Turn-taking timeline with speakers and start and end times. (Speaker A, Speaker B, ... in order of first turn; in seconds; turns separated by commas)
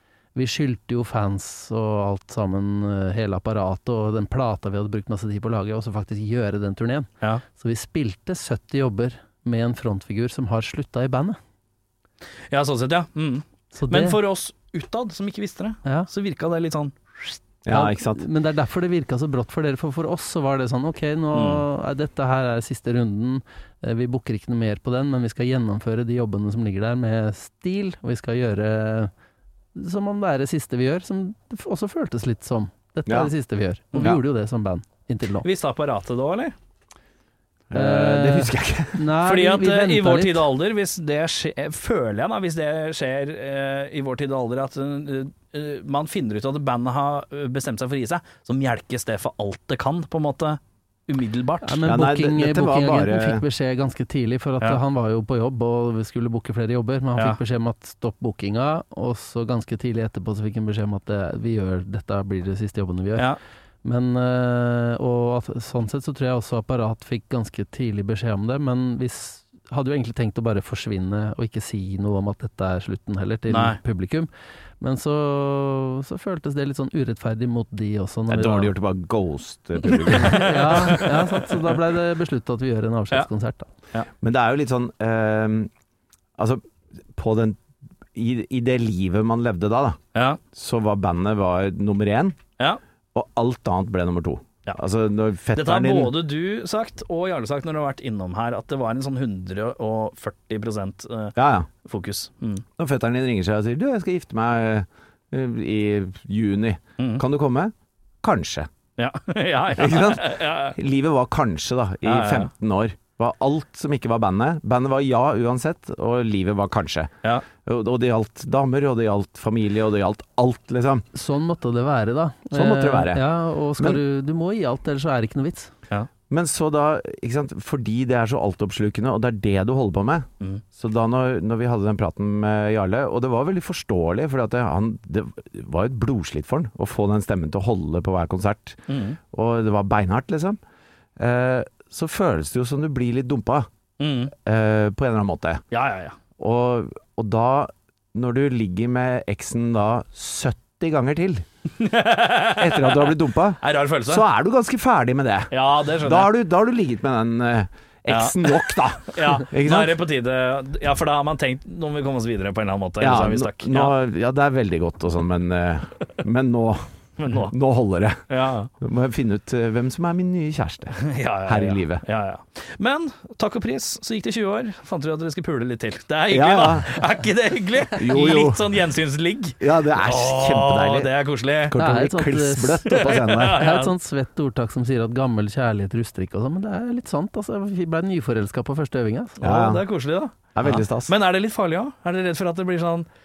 Speaker A: 0.3-11.4, Speaker B: 12.5-17.4, Speaker A: 13.8-14.2, Speaker C: 17.6-18.2, Speaker A: 17.7-29.1, Speaker B: 21.3-21.6, Speaker A: 29.8-35.5, Speaker C: 33.1-33.3, Speaker B: 35.4-36.5, Speaker C: 37.7-39.0, Speaker A: 37.7-40.5, Speaker B: 39.2-51.8, Speaker A: 51.6-63.3, Speaker C: 51.9-53.4, Speaker A: 63.8-74.3, Speaker B: 73.5-73.8, Speaker A: 74.8-78.7, Speaker C: 78.3-81.1, Speaker B: 79.8-81.7, Speaker A: 80.1-83.7, Speaker C: 84.2-85.7, Speaker C: 86.4-86.6, Speaker C: 87.1-87.6, Speaker C: 88.1-90.0, Speaker B: 90.2-90.4, Speaker C: 90.5-92.4, Speaker C: 93.1-96.2, Speaker B: 95.5-102.7, Speaker C: 101.4-101.7, Speaker C: 102.8-108.7, Speaker B: 107.0-107.2, Speaker B: 109.0-110.8, Speaker C: 109.8-117.1, Speaker B: 112.0-112.5, Speaker C: 117.6-121.1, Speaker A: 121.1-125.7, Speaker C: 122.5-123.2, Speaker C: 126.3-140.6, Speaker B: 138.9-139.2, Speaker C: 141.2-143.7, Speaker B: 144.0-144.3, Speaker C: 144.4-145.6, Speaker B: 145.7-146.2, Speaker C: 146.4-151.5, Speaker B: 151.8-154.2, Speaker C: 152.6-160.0, Speaker B: 155.5-156.3, Speaker B: 158.1-163.9, Speaker C: 163.0-168.2, Speaker B: 167.2-167.5, Speaker B: 168.3-168.7, Speaker C: 168.8-172.0, Speaker B: 171.0-181.8, Speaker C: 176.3-176.9, Speaker C: 178.0-178.6, Speaker C: 179.6-181.1, Speaker C: 181.7-183.7, Speaker A: 181.8-189.4, Speaker B: 182.9-183.9, Speaker B: 189.4-193.1, Speaker C: 189.4-189.8, Speaker C: 190.6-191.1